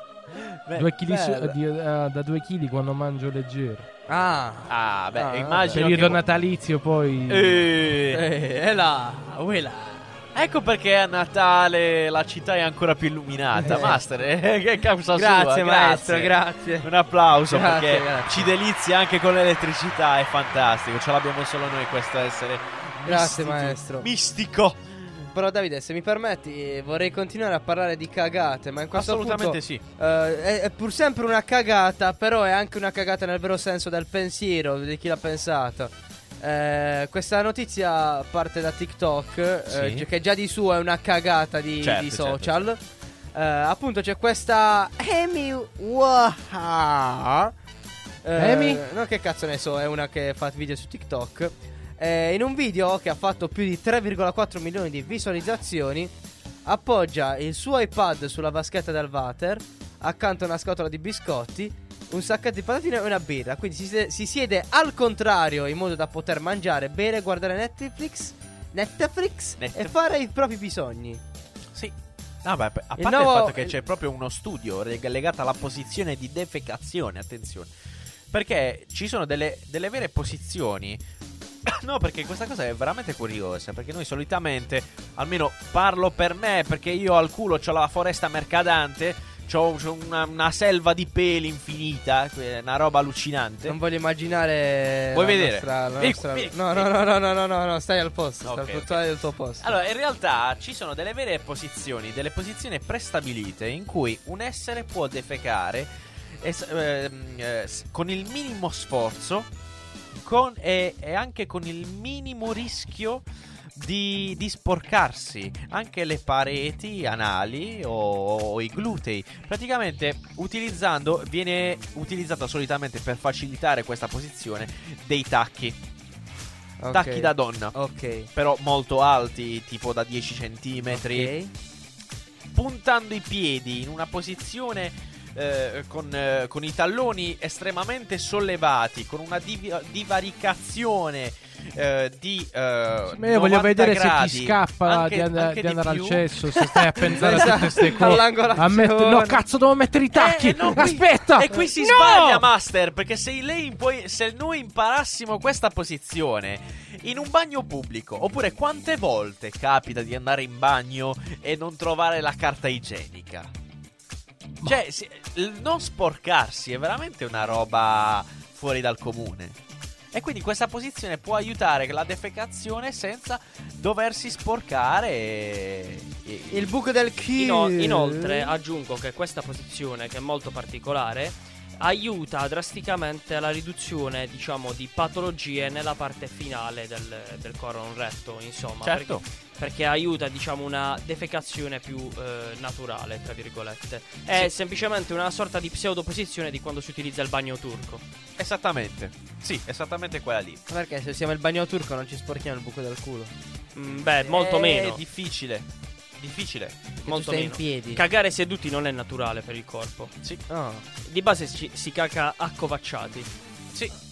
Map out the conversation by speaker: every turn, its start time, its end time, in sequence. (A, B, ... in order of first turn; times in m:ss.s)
0:00.3-0:01.4 A
0:00.8-0:03.9 B
0:01.2-0:01.5 C
0:04.1-0:06.0 C
0:04.7-0:06.2 A
0:05.7-0:07.6 B
0:07.3-0:08.2 A
0:08.1-0:10.2 C
0:10.3-0:25.3 A
0:13.6-0:14.0 C
0:15.1-0:16.9 C
0:17.5-0:18.5 C
0:23.0-0:24.1 C
0:25.3-0:42.8 C
0:28.9-0:29.8 A
0:39.7-0:40.1 A
0:41.8-0:42.6 A
0:43.3-0:47.5 C
0:48.2-0:56.1 C
0:48.4-0:48.8 B
0:56.6-1:11.2 C
1:09.6-1:09.9 A
1:11.7-1:17.7 A
1:13.0-1:13.7 C
1:18.3-1:21.0 A
1:21.6-1:33.8 A
1:33.6-1:39.7 C
1:35.1-1:36.9 A
1:38.4-1:39.0 A
1:39.6-1:45.9 A
1:46.4-1:49.5 A
1:50.1-2:05.8 A
2:06.8-2:08.3 C
2:06.9-2:07.7 A
2:08.3-2:11.3 A
2:10.9-2:11.5 C
2:12.5-2:28.2 A
2:23.1-2:32.4 B
2:27.1-2:29.4 C
2:30.1-2:43.5 A
2:44.6-2:49.6 A
2:50.1-2:56.7 A
2:56.5-2:58.5 C
2:57.3-3:18.0 D
3:08.8-3:09.2 A
3:18.4-3:20.6 A
3:20.7-3:23.3 C
3:23.7-3:25.0 D
3:23.9-3:25.7 A
3:26.2-3:26.8 A
3:27.0-3:28.0 C
3:27.0-3:30.1 D
3:30.5-3:30.8 C
3:31.0-3:33.3 D